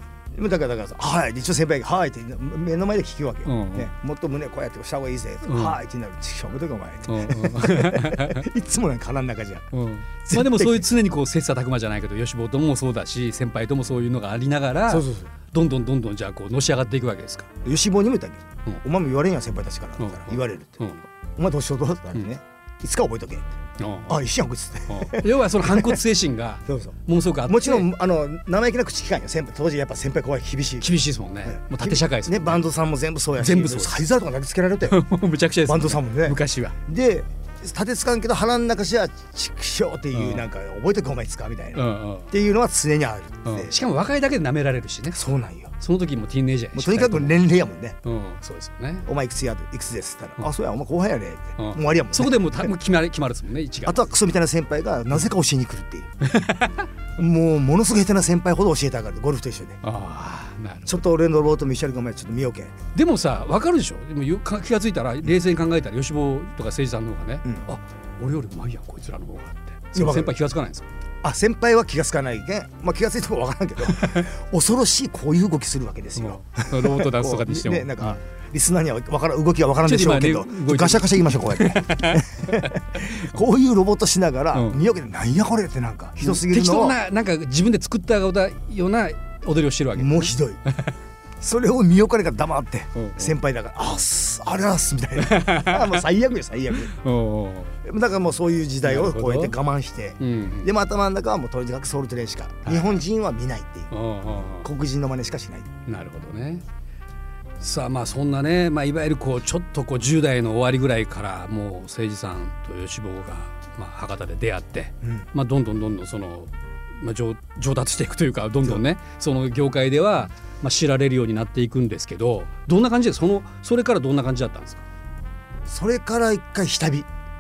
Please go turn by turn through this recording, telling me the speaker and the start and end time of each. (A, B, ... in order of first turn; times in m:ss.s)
0:00.3-0:09.7 A
0:03.4-0:03.9 B
0:05.4-0:05.8 B
0:07.1-0:08.5 B
0:09.7-0:17.5 B
0:10.2-0:10.9 A
0:14.9-0:15.3 A
0:17.6-0:26.0 A
0:20.0-0:21.0 B
0:23.8-0:24.2 B
0:24.9-0:27.9 B
0:26.7-0:35.0 A
0:30.8-0:32.7 B
0:33.4-0:34.0 B
0:34.8-0:36.8 B
0:35.6-0:43.8 A
0:40.1-0:40.5 B
0:41.8-0:42.3 B
0:43.4-0:45.2 B
0:45.1-0:45.7 A
0:45.8-0:47.4 B
0:46.7-0:48.0 A
0:48.0-0:49.1 B
0:49.1-0:52.7 A
0:51.6-0:54.1 B
0:53.8-0:56.2 A
0:56.2-0:56.9 B
0:57.2-0:59.8 A
0:59.8-1:01.0 B
1:00.9-1:02.8 A
1:02.9-1:10.9 B
1:10.0-1:10.4 A
1:11.2-1:27.0 A
1:14.0-1:14.2 B
1:16.1-1:18.2 B
1:19.8-1:23.2 B
1:24.5-1:24.8 B
1:26.2-1:30.9 B
1:30.0-1:30.6 A
1:31.4-1:36.9 A
1:33.0-1:33.4 B
1:35.2-1:36.0 B
1:36.8-1:37.7 B
1:37.8-1:43.9 A
1:38.8-1:39.6 B
1:40.2-1:40.7 B
1:42.6-1:43.0 B
1:43.9-1:44.7 B
1:44.6-1:45.7 A
1:45.9-1:46.6 B
1:47.6-2:04.8 B
1:55.0-1:55.3 A
2:05.7-2:07.1 A